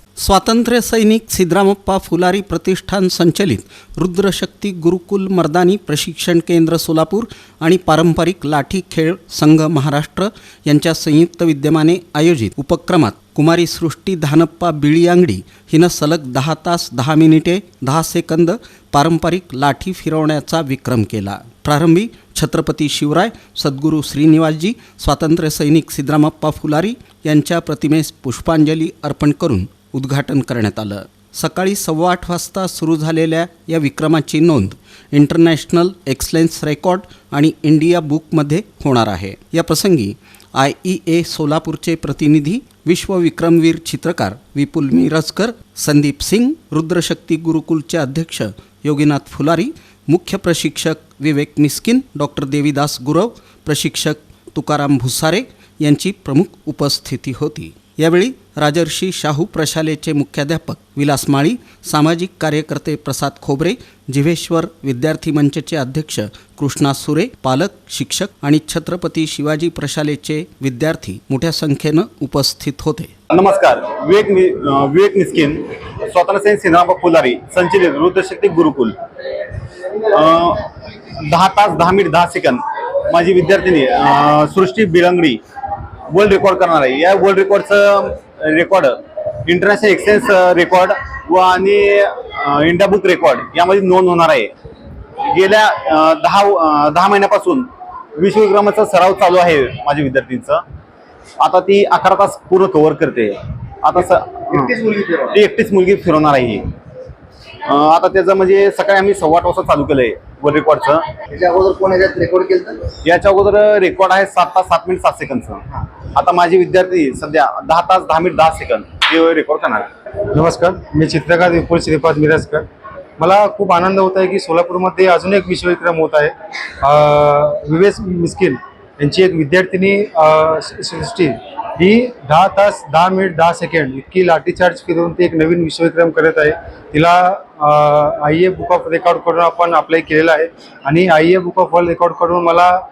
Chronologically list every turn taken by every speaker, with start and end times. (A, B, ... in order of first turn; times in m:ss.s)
0:00.2-1:13.1 A
1:13.3-1:19.0 B
1:20.0-1:25.4 B
1:26.1-1:34.5 B
1:35.2-1:40.6 B
1:41.4-1:46.7 B
1:44.7-1:45.2 C
1:47.6-1:51.0 B
1:51.3-1:52.9 C
1:53.0-1:55.6 B
1:56.1-1:59.9 B
2:00.3-2:02.6 D
2:03.2-2:22.8 D